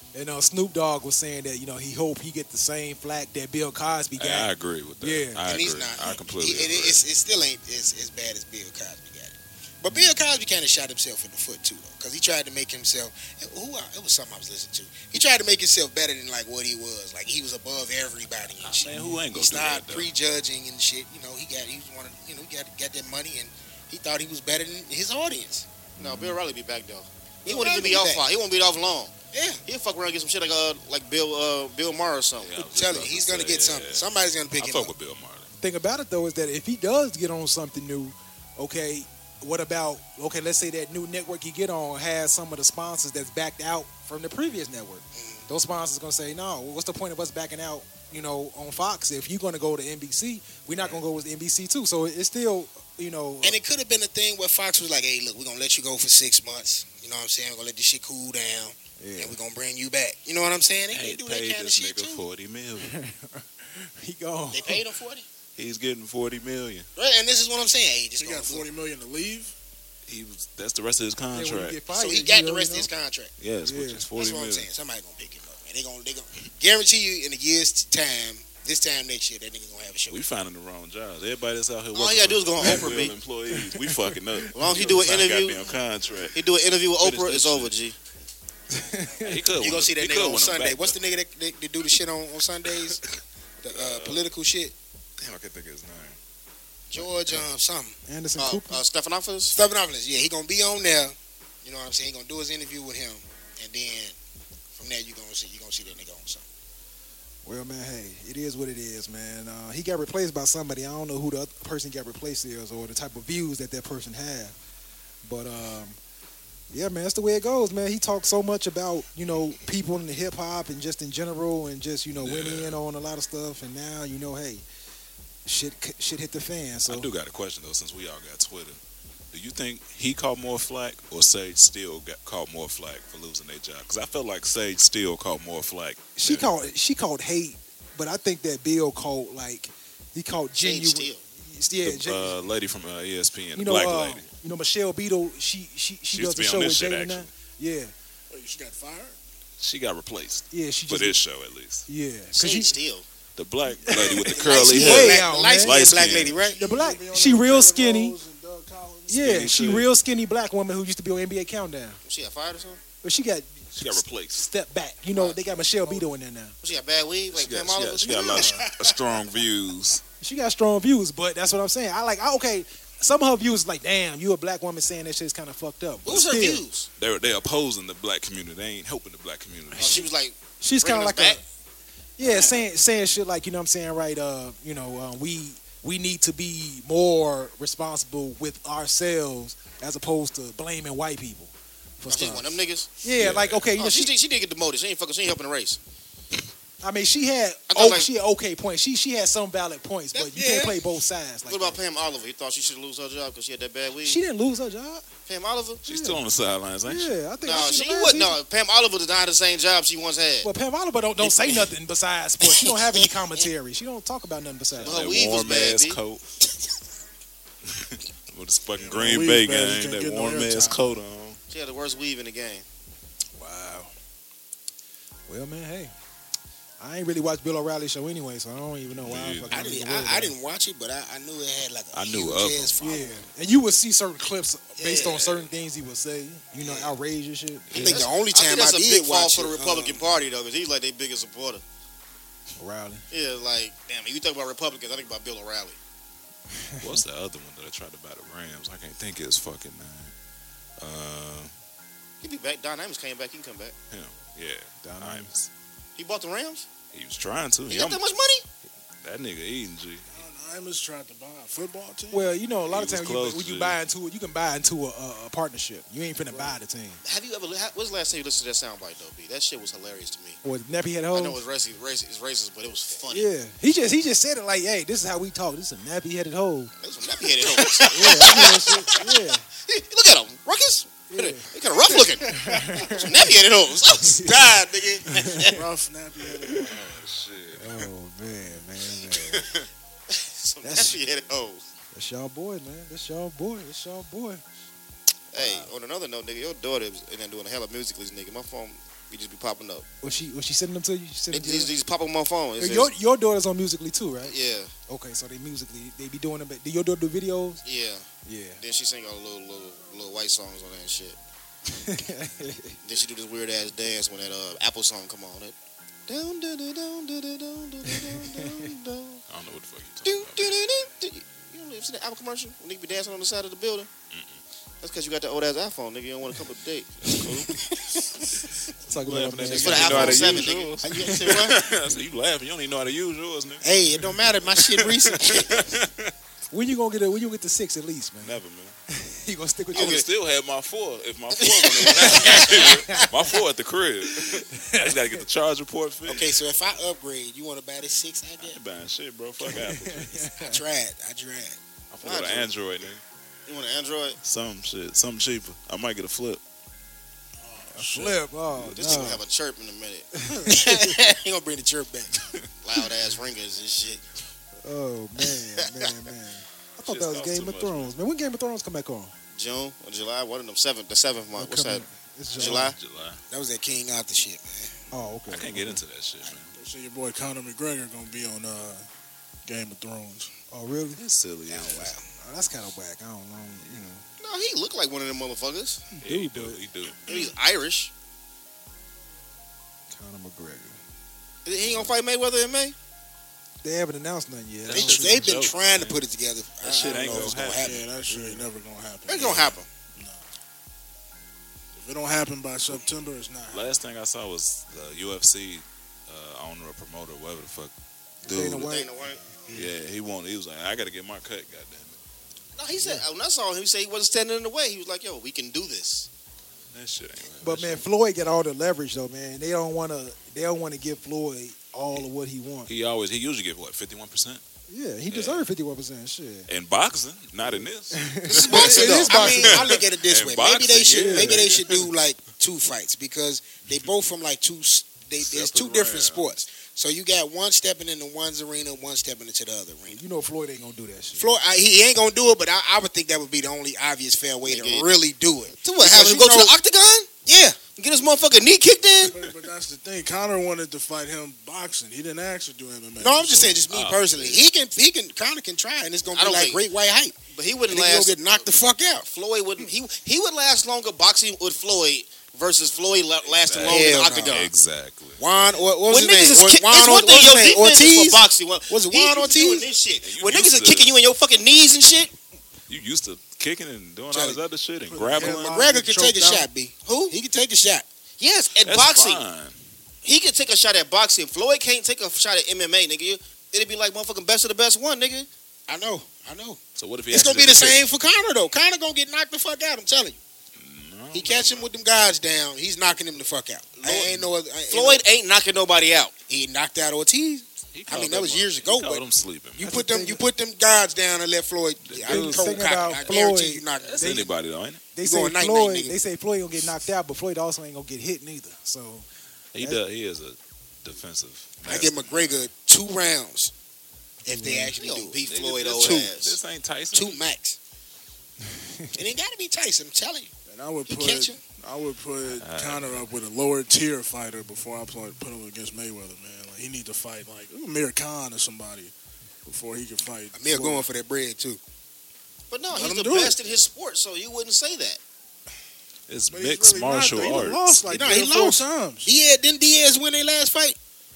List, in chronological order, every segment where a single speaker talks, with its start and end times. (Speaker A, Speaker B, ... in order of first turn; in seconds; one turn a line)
Speaker A: 0.1-5.5
Speaker B: 4.2-7.0
Speaker C: 5.5-25.7
Speaker B: 18.6-20.1
Speaker A: 18.9-19.2
Speaker A: 26.0-26.4
Speaker D: 26.0-29.1
Speaker C: 27.4-28.2
Speaker C: 29.3-29.6
Speaker D: 29.7-32.6
Speaker B: 32.4-35.5
Speaker C: 32.6-34.9
Speaker A: 35.6-53.6
Speaker C: 45.1-45.4
Speaker C: 53.4-62.2
Speaker A: 59.0-59.4
Speaker B: 60.9-63.0
Speaker A: 62.8-64.8
Speaker C: 64.5-65.3
Speaker B: 65.6-66.9
Speaker C: 67.0-68.7
Speaker E: 68.2-69.5
Speaker B: 70.1-71.8
Speaker A: 71.3-72.9
Speaker C: 71.9-73.3
Speaker B: 73.4-74.7
Speaker A: 73.6-74.1
Speaker C: 74.2-80.2
Speaker B: 80.1-86.4
Speaker D: 81.9-83.2
Speaker A: 82.6-84.1
Speaker D: 84.5-85.6
Speaker D: 86.3-88.0
Speaker B: 87.0-87.8
Speaker A: 88.7-89.4
Speaker B: 89.2-91.0
Speaker C: 89.6-93.0
Speaker B: 92.7-93.0
Speaker C: 93.6-94.7
Speaker B: 93.7-94.3
Speaker B: 95.2-96.2
Speaker C: 96.9-98.0
Speaker A: 98.1-98.8
Speaker D: 98.4-99.6
Speaker C: 99.5-104.2
Speaker C: 104.7-106.5
Speaker A: 107.5-114.5
Speaker A: 115.2-116.0
Speaker A: 116.7-124.6
Speaker B: 122.2-122.8
Speaker A: 125.5-127.1
Speaker B: 126.9-128.8
Speaker B: 129.3-136.5
Speaker A: 136.2-142.3
Speaker D: 140.6-141.2
Speaker B: 141.8-144.3
Speaker A: 143.6-147.9
Speaker B: 146.1-147.3
Speaker E: 148.3-149.2
Speaker B: 149.6-151.9
Speaker A: 150.5-151.2
Speaker A: 151.9-152.7
Speaker D: 152.3-153.1
Speaker B: 153.4-156.4
Speaker A: 153.8-155.8
Speaker C: 154.2-156.6
Speaker E: 156.2-159.5
Speaker A: 156.6-158.2
Speaker A: 159.1-162.0
Speaker B: 159.2-159.9
Speaker D: 162.1-162.8
Speaker A: 163.0-166.5
Speaker B: 163.8-164.4
Speaker D: 165.1-165.5
Speaker E: 165.7-166.0
Speaker D: 166.6-168.5
Speaker B: 167.3-170.0
Speaker A: 168.3-168.6
Speaker A: 170.2-176.6
Speaker D: 176.1-176.9
Speaker B: 177.0-180.1
Speaker D: 179.8-181.4
Speaker A: 180.6-181.4
Speaker A: 182.2-192.5
Speaker D: 182.2-182.6
Speaker D: 192.1-192.9
Speaker A: 193.0-194.1
Speaker B: 193.2-193.7
Speaker D: 193.8-195.8
Speaker A: 196.8-201.8
Speaker D: 197.7-198.1
Speaker C: 200.1-200.8
Speaker D: 201.5-204.2
Speaker A: 204.0-205.0
Speaker D: 205.3-205.8
Speaker A: 205.8-206.2
Speaker B: 205.8-207.1
Speaker A: 206.8-208.4
Speaker D: 207.4-210.5
Speaker A: 210.4-215.1
Speaker C: 212.4-213.1
Speaker B: 214.8-216.2
Speaker D: 214.8-216.0
Speaker B: 217.7-221.4
Speaker E: 218.8-220.8
Speaker D: 221.5-222.7
Speaker A: 223.4-223.9
Speaker A: 225.3-225.9
Speaker A: 226.8-230.3
Speaker B: 228.9-229.8
Speaker C: 229.5-233.2
Speaker B: 231.9-232.8
Speaker A: 232.8-238.0
Speaker D: 234.8-235.2
Speaker B: 235.0-235.4
Speaker C: 236.6-236.9
Speaker C: 237.7-240.2
Speaker D: 237.7-241.6
Speaker A: 242.6-243.0
Speaker D: 243.1-245.8
Speaker A: 246.5-247.0
Speaker B: 246.8-250.1
Speaker B: 250.8-251.5
Speaker D: 252.2-253.8
Speaker B: 253.9-255.5
Speaker A: 254.8-255.3
Speaker D: 256.0-256.7
Speaker B: 256.9-258.0
Speaker D: 257.7-258.4
Speaker B: 259.0-260.2
Speaker E: 260.1-262.4
Speaker A: 262.1-267.0
Speaker B: 262.7-263.8
Speaker D: 267.0-270.4
Speaker A: 270.4-271.4
Speaker D: 271.1-273.3
Speaker A: 273.1-276.7
Speaker D: 276.8-285.5
Speaker A: 277.9-279.4
Speaker A: 281.1-281.5
Speaker A: 282.2-283.3
Speaker E: 282.2-282.7
Speaker A: 284.0-284.5
Speaker A: 285.1-285.6
Speaker E: 285.4-286.9
Speaker B: 286.6-287.9
Speaker A: 287.6-289.5
Speaker D: 290.1-291.6
Speaker A: 290.6-291.0
Speaker A: 291.9-294.4
Speaker D: 295.3-299.9
Speaker A: 295.4-295.7
Speaker A: 300.0-301.7
Speaker D: 301.3-302.9
Speaker A: 302.6-304.3
Speaker D: 304.2-304.7
Speaker A: 304.9-307.6
Speaker D: 307.6-308.1
Speaker A: 308.2-308.6
Speaker D: 308.6-311.2
Speaker A: 311.7-312.8
Speaker D: 312.8-315.6
Speaker D: 316.1-319.2
Speaker A: 318.0-318.6
Speaker B: 319.3-320.6
Speaker D: 320.1-323.9
Speaker B: 324.1-324.4
Speaker D: 324.8-326.9
Speaker B: 327.0-327.6
Speaker C: 327.7-328.1
Speaker A: 328.9-330.5
Speaker B: 328.9-333.7
Speaker D: 329.5-331.6
Speaker C: 330.8-331.5
Speaker C: 333.6-335.7
Speaker B: 334.4-336.1
Speaker A: 336.5-340.0
Speaker B: 338.2-338.8
Speaker B: 339.7-346.3
Speaker D: 339.7-340.1
Speaker C: 341.8-343.1
Speaker A: 342.2-343.1
Speaker A: 344.1-345.2
Speaker C: 346.1-348.6
Speaker B: 348.4-350.3
Speaker A: 349.5-350.6
Speaker C: 350.4-351.6
Speaker B: 351.9-353.0
Speaker D: 352.0-352.5
Speaker D: 353.5-354.2
Speaker B: 354.2-356.4
Speaker E: 357.4-358.2
Speaker A: 357.7-359.2
Speaker D: 358.6-360.1
Speaker A: 360.2-361.0
Speaker C: 360.5-362.2
Speaker D: 362.6-364.0
Speaker A: 364.6-369.1
Speaker B: 366.8-367.9
Speaker D: 369.4-371.8
Speaker A: 371.4-372.7
Speaker B: 372.3-373.2
Speaker D: 372.4-372.8
Speaker C: 373.3-374.8
Speaker A: 374.9-375.8
Speaker B: 375.3-376.5
Speaker E: 376.5-378.9
Speaker E: 379.5-380.3
Speaker A: 380.5-381.0
Speaker B: 381.0-381.9
Speaker C: 381.5-382.1
Speaker A: 382.2-384.0
Speaker D: 384.2-385.8
Speaker A: 385.9-386.6
Speaker B: 386.0-387.0
Speaker D: 387.1-387.9
Speaker A: 389.9-390.8
Speaker D: 391.4-392.8
Speaker A: 393.6-395.4
Speaker B: 394.6-396.0
Speaker C: 394.7-397.8
Speaker B: 396.6-397.8
Speaker E: 396.8-400.2
Speaker A: 398.1-398.5
Speaker D: 399.1-399.7
Speaker E: 401.8-403.8
Speaker B: 403.5-407.7
Speaker B: 408.2-408.7
Speaker A: 408.3-408.9
Speaker D: 408.6-409.2
Speaker B: 409.5-412.0
Speaker D: 412.6-416.1
Speaker B: 416.7-417.8
Speaker A: 417.4-422.7
Speaker B: 422.7-424.4
Speaker A: 424.7-426.5
Speaker B: 425.1-425.5
Speaker B: 426.5-431.9
Speaker A: 427.9-429.7
Speaker D: 428.3-429.4
Speaker C: 428.3-440.0
Speaker A: 430.9-431.4
Speaker B: 435.2-436.4
Speaker A: 439.9-441.3
Speaker C: 441.2-446.6
Speaker D: 444.4-444.9
Speaker D: 445.6-447.1
Speaker C: 447.3-447.6
Speaker D: 447.8-449.2
Speaker E: 449.0-453.6
Speaker C: 453.0-457.1
Speaker B: 453.6-454.5
Speaker D: 456.1-456.6
Speaker D: 457.3-458.5
Speaker C: 457.7-459.1
Speaker D: 459.1-464.5
Speaker B: 463.3-465.2
Speaker C: 463.6-464.4
Speaker C: 465.2-469.7
Speaker D: 465.9-472.1
Speaker B: 470.0-470.9
Speaker B: 472.7-475.6
Speaker C: 474.1-474.4
Speaker E: 474.9-476.5
Speaker C: 475.1-477.9
Speaker D: 476.9-477.1
Speaker D: 478.2-479.2
Speaker B: 478.6-479.6
Speaker D: 480.0-485.3
Speaker C: 485.7-486.6
Speaker B: 486.8-487.8
Speaker C: 487.1-490.2
Speaker B: 490.6-491.7
Speaker C: 491.1-495.0
Speaker D: 493.8-494.1
Speaker D: 494.7-496.1
Speaker C: 496.3-499.1
Speaker B: 497.7-499.7
Speaker A: 499.6-500.2
Speaker C: 499.6-504.2
Speaker B: 501.9-503.0
Speaker A: 502.1-504.4
Speaker B: 503.8-504.8
Speaker A: 504.9-509.1
Speaker C: 505.0-506.0
Speaker B: 509.5-512.1
Speaker C: 511.7-513.5
Speaker C: 514.2-515.2
Speaker A: 514.3-514.8
Speaker D: 514.8-516.4
Speaker B: 515.2-517.3
Speaker C: 515.8-516.1
Speaker C: 516.9-517.6
Speaker A: 518.5-518.9
Speaker C: 519.0-520.3
Speaker E: 520.5-528.9
Speaker C: 520.9-521.4
Speaker B: 522.3-523.1
Speaker E: 529.5-530.9
Speaker C: 530.3-531.6
Speaker D: 532.5-535.0
Speaker E: 532.7-533.4
Speaker B: 536.1-537.8
Speaker E: 536.3-539.1
Speaker C: 537.9-540.8